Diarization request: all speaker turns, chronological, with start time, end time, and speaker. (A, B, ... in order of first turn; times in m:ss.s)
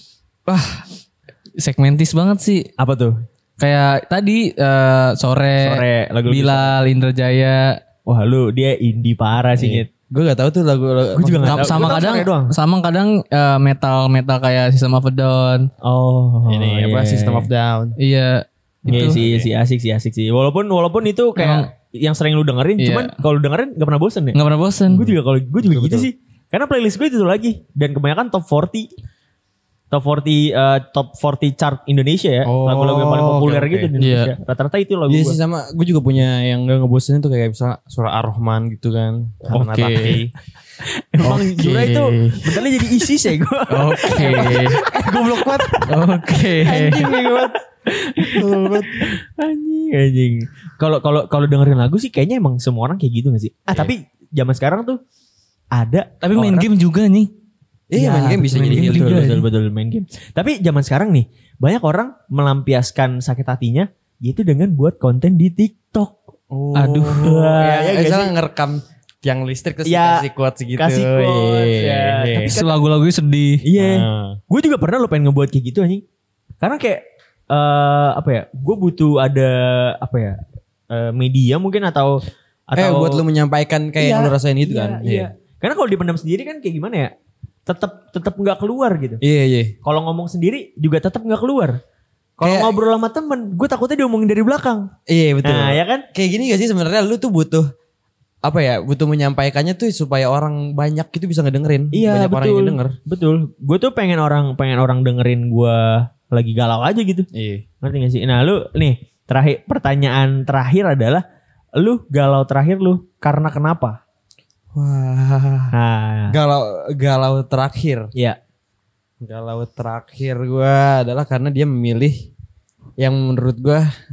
0:00.5-0:00.8 A
0:01.6-0:02.7 A
0:02.8-0:03.2 B
0:03.6-0:07.8 A
0:05.6-0:06.8 B
0:08.0-0:09.9 B
0:09.6-0:12.0 C
0:11.2-0:12.5 B
0:11.4-0:15.7 A
0:15.8-0:17.5 B
0:16.5-0:17.9 C
0:18.0-0:19.2 A
0:18.9-0:24.4 B
0:18.9-0:19.5 C
0:21.4-0:21.7 A
0:22.8-0:23.2 A
0:24.3-0:25.1 A
0:24.9-0:28.9 B
0:25.6-0:26.1 C
0:29.9-0:35.4 B
0:32.4-0:33.9 C
0:34.0-0:34.3 A
0:35.1-0:40.3 C
0:39.5-0:40.2 A
0:40.8-0:55.0 B
0:41.2-0:42.6 A
0:43.7-0:44.8 A
0:44.1-0:45.8 C
0:45.8-0:47.1 A
0:46.6-0:47.6 C
0:48.2-0:49.2 C
0:55.7-0:56.6 B
0:56.2-0:57.3 A
0:57.9-0:59.3 C
0:58.0-1:06.2 B
0:58.2-0:59.4 A
1:06.5-1:12.6 C
1:06.7-1:07.3 A
1:07.1-1:08.3 B
1:09.8-1:10.2 B
1:10.8-1:12.7 B
1:12.4-1:13.6 A
1:13.6-1:16.0 B
1:13.8-1:14.4 C
1:16.6-1:23.2 B
1:22.8-1:25.3 C
1:24.0-1:27.1 B
1:27.7-1:29.2 B
1:29.2-1:29.7 C
1:29.8-1:31.8 B
1:32.4-1:34.9 B
1:32.4-1:32.7 C
1:35.1-1:37.7 C
1:35.4-1:36.0 B
1:38.4-1:43.0 C
1:41.9-1:47.3 B
1:47.3-1:47.6 C
1:47.8-1:51.2 B
1:51.8-1:54.0 B
1:54.7-1:55.7 C
1:55.7-1:56.4 B
1:56.3-1:58.1 C
1:59.2-2:02.3 C
2:03.0-2:03.9 C